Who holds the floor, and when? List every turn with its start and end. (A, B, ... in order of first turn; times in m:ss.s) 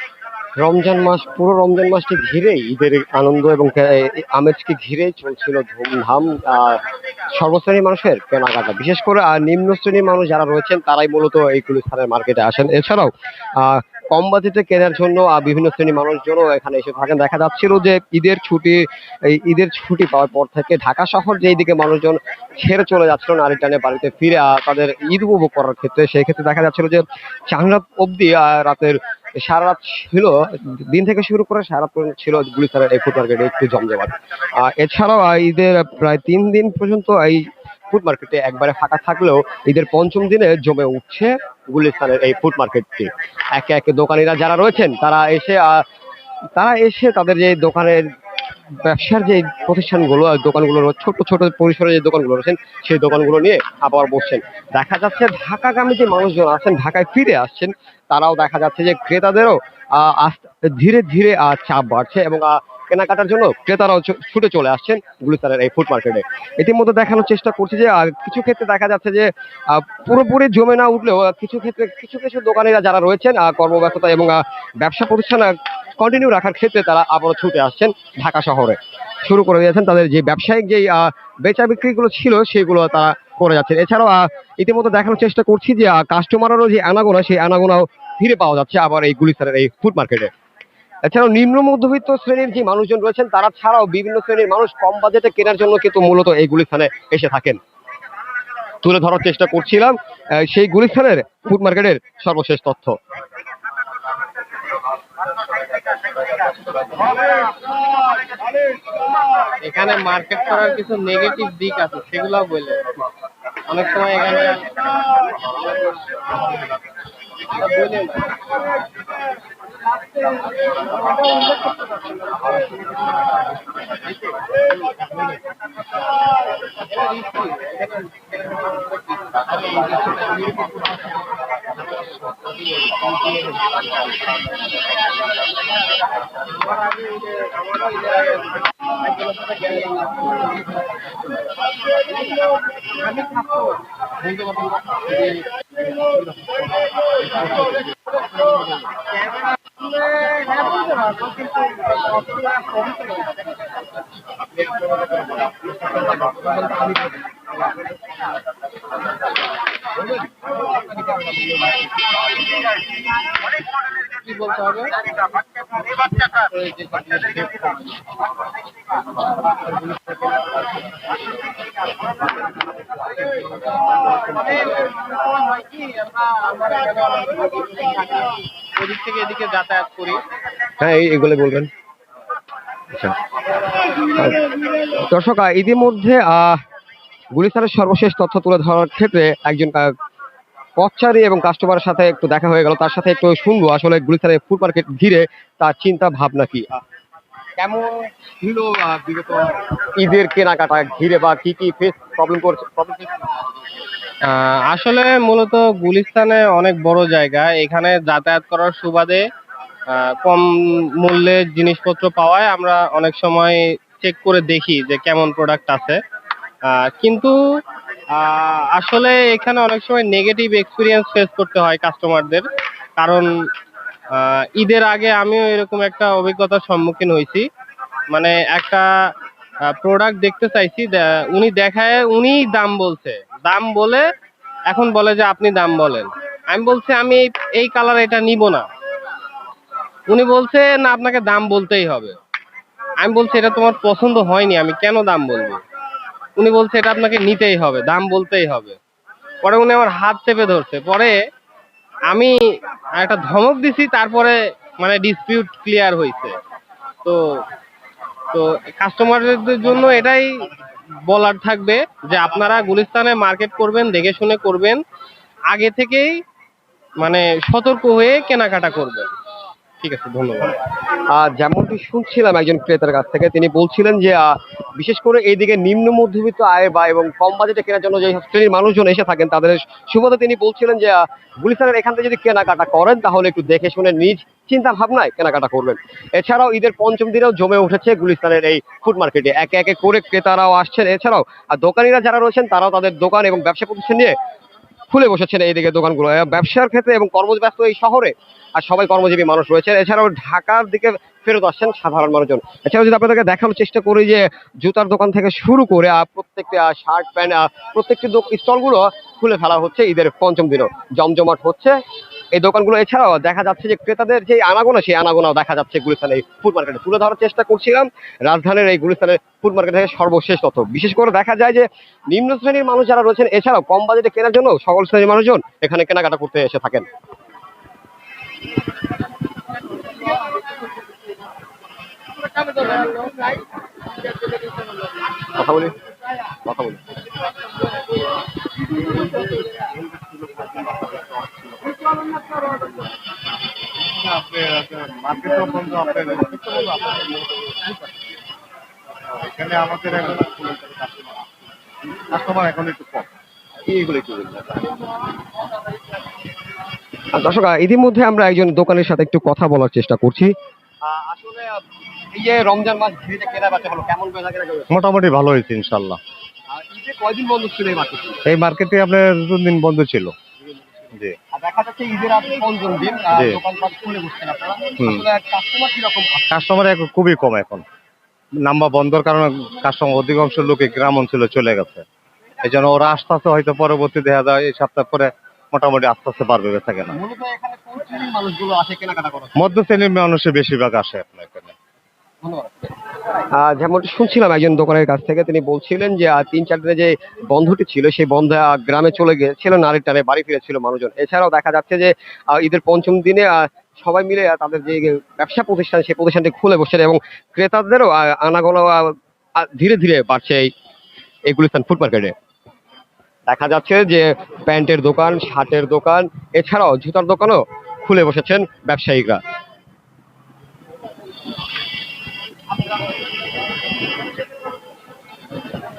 0:00.6-0:06.8 A
0:07.4-0:45.8 A
0:46.6-0:48.1 A
0:48.8-1:30.3 A
1:31.0-1:37.6 A
1:38.8-1:43.0 A
1:49.6-1:53.1 B
1:53.7-1:56.2 B
1:57.5-1:58.5 B
2:06.9-2:08.3 B
2:09.4-2:10.9 B
2:13.3-2:13.7 B
2:16.6-2:18.4 B
2:19.1-2:20.6 B
2:22.9-2:25.4 B
2:30.2-2:31.9 B
2:36.5-2:36.8 B
2:44.1-2:45.1 B
2:46.1-2:47.9 B
2:53.7-3:00.2 B
3:00.8-3:01.7 A
3:04.0-3:06.6 A
3:07.3-3:09.9 A
3:10.8-3:16.8 A
3:17.6-3:23.3 A
3:24.2-3:29.2 B
3:29.9-3:36.0 B
3:36.6-3:37.4 B
3:38.1-3:42.4 B
3:43.0-3:43.3 B
3:44.1-3:47.5 B
3:48.1-3:48.9 B
3:49.6-3:54.1 B
3:54.7-3:58.7 B
4:00.1-4:02.2 B
4:03.0-4:05.6 B
4:06.4-4:08.8 B
4:09.4-4:11.2 B
4:12.1-4:12.4 B
4:13.0-4:16.4 B
4:17.0-4:17.4 B
4:18.3-4:20.5 B
4:21.1-4:24.8 B
4:25.5-4:26.2 B
4:27.0-4:29.1 B
4:29.8-4:30.6 B
4:31.1-4:54.2 A
4:54.9-5:11.8 A
5:12.3-5:26.9 A
5:32.4-5:33.3 B
5:35.4-5:36.9 A
5:43.9-5:46.8 C
5:49.2-5:51.1 C
5:52.1-5:53.1 C
5:53.7-5:54.6 A
5:57.1-6:00.3 A
6:00.8-6:04.7 A
6:04.7-6:06.0 C
6:06.5-6:08.2 A
6:08.2-6:10.1 C
6:11.3-6:16.3 A
6:16.3-6:17.6 C
6:18.4-6:21.8 C
6:22.4-6:27.0 C
6:26.9-6:29.4 A
6:29.4-6:31.6 C
6:32.2-6:32.5 A
6:33.4-6:50.5 A
6:51.3-6:52.2 A
6:53.3-6:59.2 A